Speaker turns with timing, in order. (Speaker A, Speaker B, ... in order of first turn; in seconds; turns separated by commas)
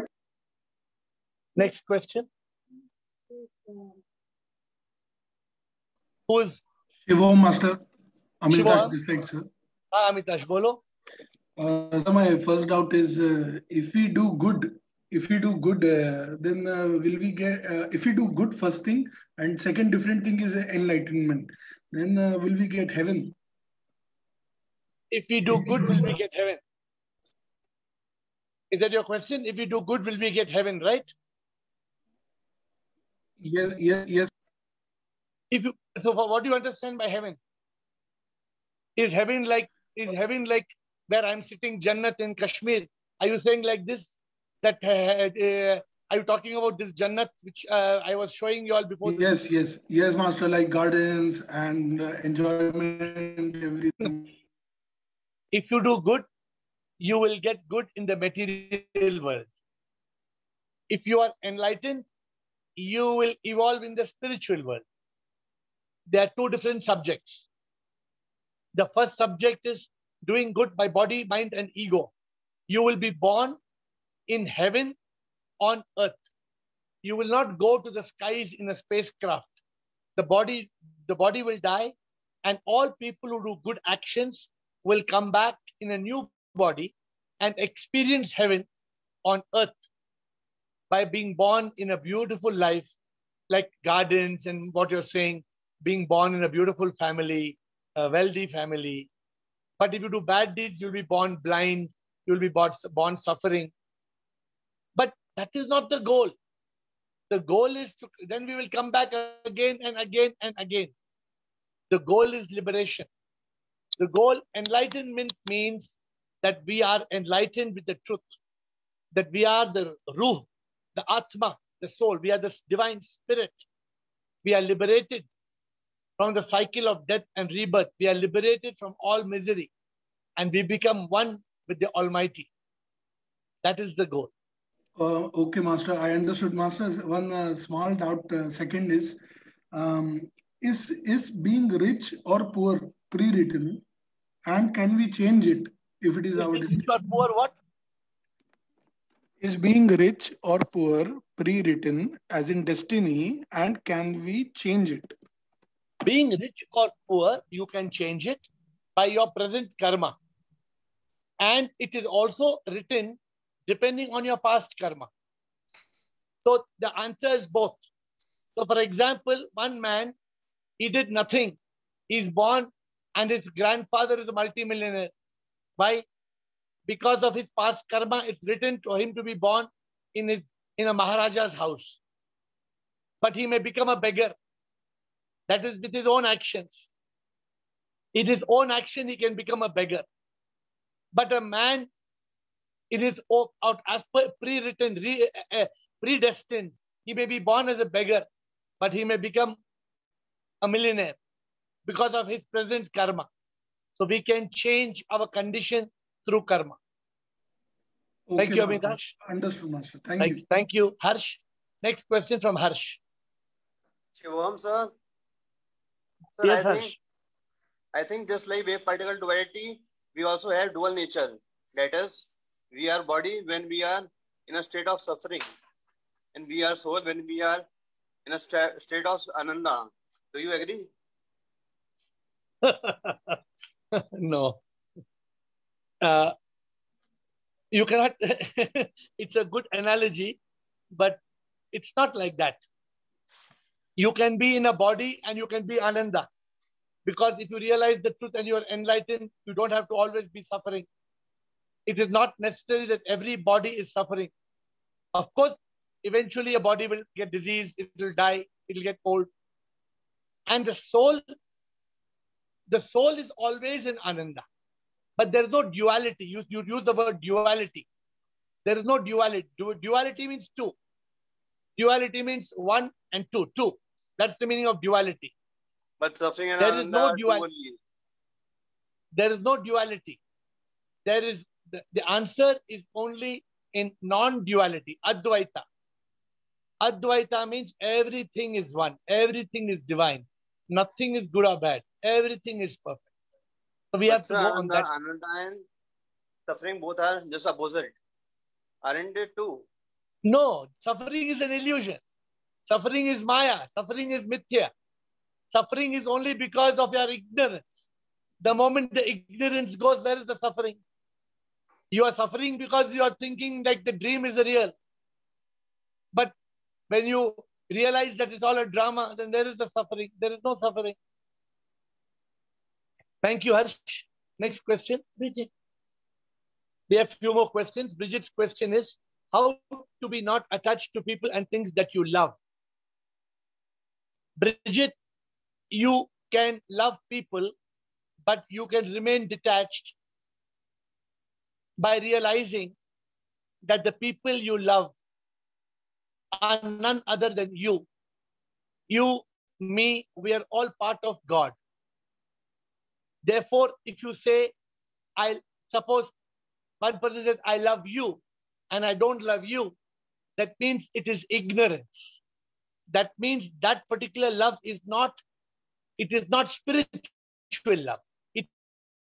Speaker A: 1.6-2.3, Speaker A: 6.3-6.6, Speaker B: 7.1-7.8, Speaker B: 8.4-9.5, Speaker A: 8.5-9.0, Speaker A: 9.9-10.8, Speaker B: 11.6-23.4, Speaker A: 25.1-26.6, Speaker A: 28.7-31.1, Speaker B: 33.4-34.3, Speaker A: 35.5-37.4, Speaker A: 39.0-49.3, Speaker B: 49.0-54.3, Speaker A: 55.5-56.2, Speaker A: 57.0-59.5, Speaker A: 60.9-62.0, Speaker A: 62.8-64.8, Speaker A: 66.1-67.5, Speaker A: 68.8-72.1, Speaker A: 72.7-73.6, Speaker A: 74.3-75.0, Speaker A: 75.6-76.2, Speaker A: 77.0-79.5, Speaker A: 80.2-88.7, Speaker A: 89.2-89.8, Speaker A: 90.9-92.9, Speaker A: 93.5-99.1, Speaker A: 99.8-103.7, Speaker A: 105.0-106.3, Speaker A: 107.3-110.9, Speaker A: 111.9-113.1, Speaker A: 114.0-118.3, Speaker A: 119.1-123.6, Speaker A: 124.4-125.3, Speaker A: 126.2-129.7, Speaker A: 130.4-132.5, Speaker A: 133.6-134.3, Speaker B: 135.0-139.2, Speaker B: 139.7-143.8, Speaker B: 144.5-146.9, Speaker A: 146.4-147.5, Speaker B: 149.4-155.1, Speaker A: 156.1-158.4, Speaker A: 159.0-160.2, Speaker A: 161.4-165.1, Speaker A: 166.4-167.9, Speaker A: 168.6-170.1, Speaker A: 170.8-171.6, Speaker A: 172.1-175.1, Speaker A: 175.8-176.1, Speaker A: 176.9-182.0, Speaker A: 183.2-184.3, Speaker A: 185.5-186.9, Speaker A: 188.1-190.1, Speaker A: 191.1-191.9, Speaker A: 192.9-198.2, Speaker A: 198.8-199.6, Speaker A: 200.6-201.2, Speaker A: 201.9-203.3, Speaker A: 204.0-206.8, Speaker B: 208.3-210.4, Speaker A: 208.4-209.1, Speaker A: 210.2-213.0, Speaker C: 214.1-214.9, Speaker C: 216.4-216.9, Speaker A: 216.4-216.9, Speaker C: 217.9-225.5, Speaker C: 226.3-227.7, Speaker C: 228.2-230.9, Speaker A: 232.6-233.4, Speaker A: 233.9-234.6, Speaker A: 236.0-236.3, Speaker A: 237.7-240.4, Speaker A: 240.9-241.2, Speaker A: 241.7-242.6, Speaker A: 244.0-246.3, Speaker A: 247.1-250.9, Speaker A: 251.9-254.3, Speaker A: 255.1-259.3, Speaker A: 260.5-261.2, Speaker A: 262.7-264.4, Speaker A: 265.2-267.9, Speaker A: 268.6-270.8, Speaker A: 271.8-275.3, Speaker C: 276.0-277.8, Speaker A: 276.6-277.4, Speaker A: 279.1-280.2, Speaker A: 281.0-285.6, Speaker A: 286.8-293.1, Speaker A: 293.9-294.9, Speaker C: 294.1-295.6, Speaker C: 296.5-298.0, Speaker C: 298.8-299.6, Speaker A: 300.2-302.0, Speaker A: 302.7-304.7, Speaker A: 305.5-307.9, Speaker A: 308.4-310.8, Speaker A: 311.9-314.7, Speaker A: 316.9-321.0, Speaker A: 323.2-325.5, Speaker A: 326.9-332.4, Speaker A: 334.4-335.0, Speaker A: 335.7-337.5, Speaker A: 338.2-339.9, Speaker A: 341.8-342.8, Speaker A: 343.6-345.0, Speaker A: 346.4-347.9, Speaker A: 348.9-351.5, Speaker A: 353.2-354.5, Speaker A: 355.2-356.1, Speaker A: 356.8-359.8, Speaker A: 360.4-362.2, Speaker A: 362.9-365.2, Speaker A: 366.0-368.5